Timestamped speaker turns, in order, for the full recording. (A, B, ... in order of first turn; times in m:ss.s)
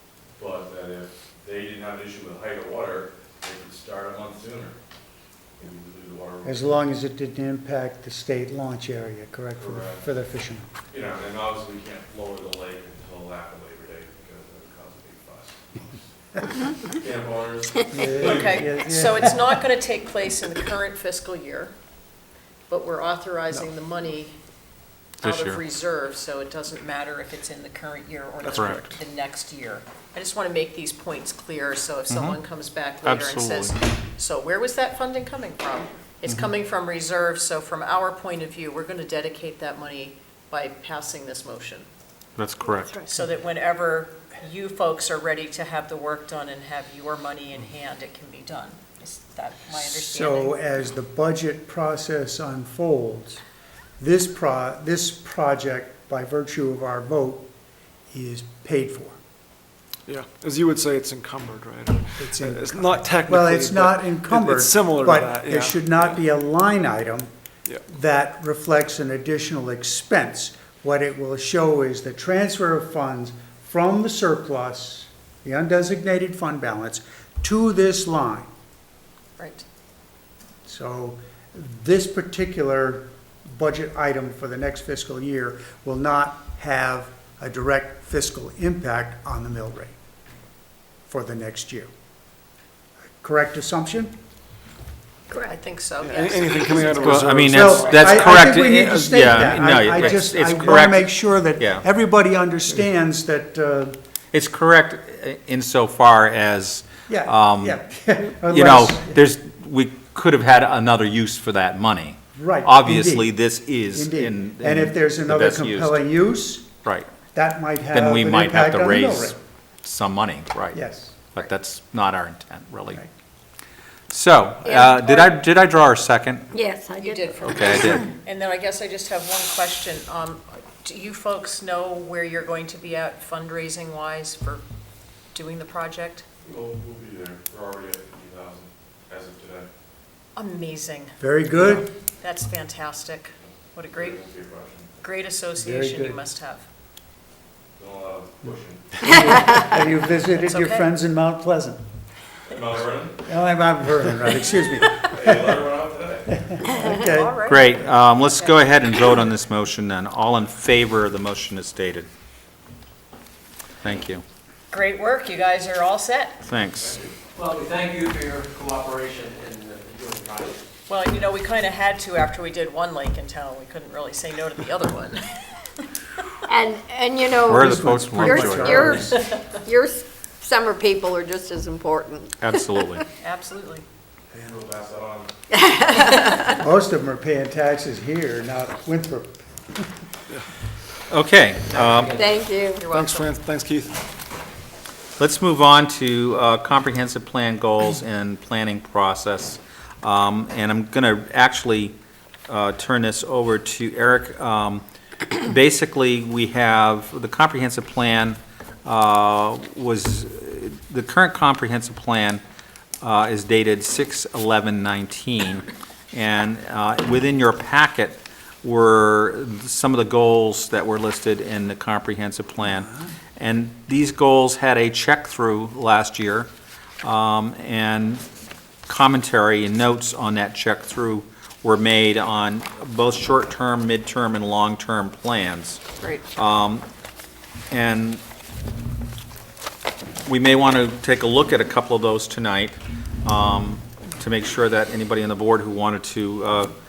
0:00.3-0:04.8 A
0:05.6-0:06.9 A
0:06.4-0:10.7 B
0:09.6-0:10.1 A
0:10.9-0:15.9 A
0:16.9-0:18.7 A
0:17.9-0:19.4 B
0:18.0-0:21.7 C
0:22.7-0:24.4 C
0:25.2-0:41.9 C
0:25.2-0:25.6 D
0:28.4-0:29.0 E
0:28.5-0:28.8 D
0:32.1-0:32.4 D
0:33.0-0:33.7 D
0:42.4-0:43.0 D
0:43.0-0:50.6 C
0:49.8-0:53.4 B
0:54.0-0:57.5 B
0:58.1-0:59.2 B
1:00.1-1:06.2 E
1:02.2-1:07.3 B
1:07.9-1:18.5 B
1:19.4-1:19.6 C
1:20.6-1:30.0 B
1:31.1-1:31.9 B
1:33.2-1:34.1 B
1:35.3-1:37.3 C
1:36.0-1:38.5 E
1:37.0-1:41.8 D
1:37.4-1:44.0 B
1:44.3-1:47.8 D
1:47.1-1:49.2 B
1:48.4-1:56.0 D
1:52.3-1:53.3 B
1:53.9-1:56.7 B
1:57.3-1:59.4 B
1:57.9-2:00.8 D
2:00.7-2:01.2 B
2:01.3-2:03.0 D
2:04.1-2:06.5 D
2:04.6-2:05.3 C
2:06.5-2:07.3 F
2:07.0-2:14.6 C
2:07.4-2:08.1 D
2:15.3-2:16.2 C
2:16.4-2:19.7 A
2:20.3-2:21.2 C
2:21.2-2:21.9 B
2:22.2-2:24.2 C
2:23.7-2:25.0 A
2:25.0-2:26.6 C
2:25.6-2:26.2 B
2:27.8-2:29.0 A
2:29.1-2:31.8 B
2:30.4-2:30.9 C
2:32.5-2:33.3 A
2:33.3-2:35.6 B
2:35.0-2:36.4 A
2:36.3-2:37.6 B
2:36.7-2:38.6 C
2:37.5-2:42.1 D
2:43.8-2:44.2 D
2:44.7-2:46.4 C
2:46.4-2:46.9 D
2:46.8-2:47.1 A
2:47.4-2:50.6 G
2:50.9-2:55.8 C
2:56.5-3:03.0 F
2:57.5-2:59.2 B
2:57.5-2:59.1 D
2:58.8-2:59.4 C
3:02.4-3:03.0 D
3:03.2-3:03.8 C
3:04.3-3:05.3 A
3:05.5-3:06.6 F
3:06.6-3:09.9 B
3:11.1-3:12.2 D
3:11.9-3:12.3 G
3:12.1-3:12.8 F
3:12.8-3:13.3 C
3:12.8-3:14.0 E
3:15.2-3:22.0 D
3:22.5-3:32.4 D
3:33.0-3:46.5 D
3:47.0-3:48.2 D
3:48.9-3:55.8 D
3:56.0-3:56.2 C
3:56.3-3:56.8 D
3:57.7-3:58.2 D
4:00.2-4:06.7 D